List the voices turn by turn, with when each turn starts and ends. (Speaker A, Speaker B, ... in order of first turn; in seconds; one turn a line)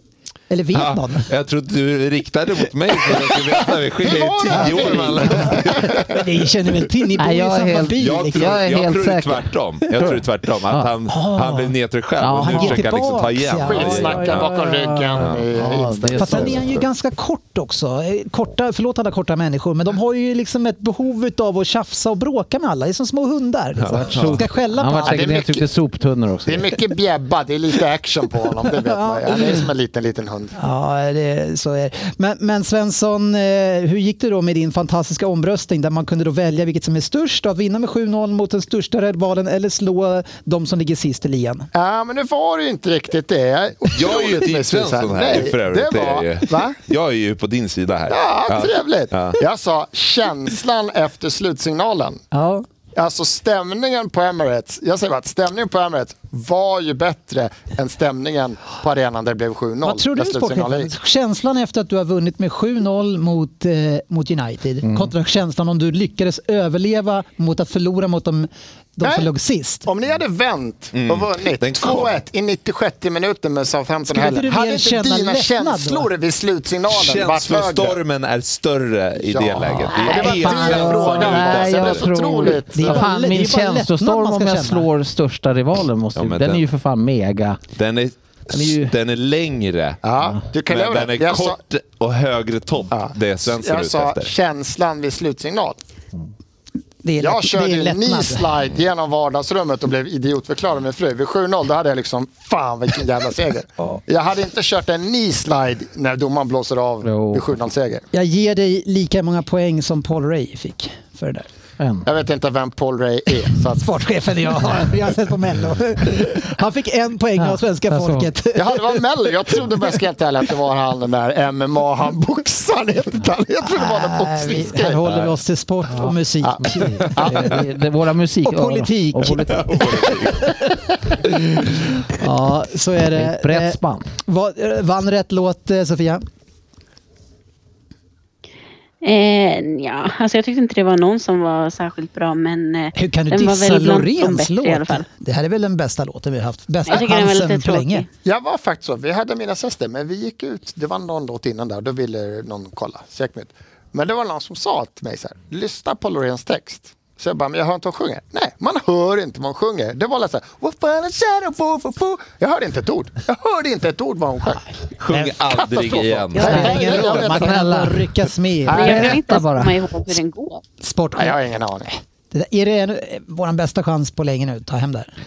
Speaker A: 0.5-1.3
Speaker B: 0.7-6.2
Speaker C: 4.0-6.0
Speaker A: 5.3-8.7
Speaker D: 7.2-10.9
Speaker B: 8.0-14.6
Speaker A: 11.1-11.8
Speaker D: 12.2-12.8
Speaker A: 12.3-15.2
Speaker C: 13.6-16.6
Speaker D: 15.2-16.8
Speaker B: 15.2-15.4
Speaker A: 16.1-25.5
Speaker B: 23.8-24.4
Speaker D: 23.9-26.8
Speaker C: 25.0-25.7
Speaker C: 26.5-30.6
Speaker A: 28.8-29.6
Speaker A: 30.6-41.7
Speaker C: 41.7-46.8
Speaker B: 43.9-49.4
Speaker C: 48.1-52.2
Speaker A: 52.3-52.7
Speaker C: 53.0-60.9
Speaker A: 59.8-69.9
Speaker D: 64.8-65.1
Speaker C: 69.0-69.3
Speaker C: 69.9-78.0
Speaker B: 70.9-72.2
Speaker A: 74.1-76.1
Speaker B: 76.9-82.5
Speaker C: 79.2-83.1
Speaker A: 79.9-81.3
Speaker D: 80.1-87.6
Speaker A: 82.7-84.9
Speaker B: 86.2-86.7
Speaker B: 87.8-90.0
Speaker D: 88.5-88.9
Speaker C: 90.0-91.6
Speaker B: 90.7-94.3
Speaker C: 92.9-95.8
Speaker A: 97.0-98.5
Speaker C: 97.2-108.0
Speaker D: 107.0-107.5
Speaker A: 108.1-111.5
Speaker D: 111.8-112.1
Speaker C: 112.0-113.9
Speaker A: 113.5-119.6
Speaker D: 117.4-118.3
Speaker C: 118.5-125.0
Speaker A: 123.7-127.5
Speaker C: 126.4-127.6
Speaker D: 126.7-129.9
Speaker A: 128.4-136.2
Speaker B: 129.4-130.5
Speaker D: 133.1-134.2
Speaker E: 139.0-145.1
Speaker A: 142.9-148.1
Speaker E: 146.9-148.1
Speaker C: 148.2-168.0
Speaker B: 165.0-166.8
Speaker A: 165.1-165.4
Speaker A: 166.3-169.1
Speaker D: 166.4-168.0
Speaker C: 168.7-169.2
Speaker D: 168.7-169.8
Speaker E: 168.7-170.6
Speaker A: 170.8-171.4
Speaker C: 171.2-171.9
Speaker A: 172.3-175.1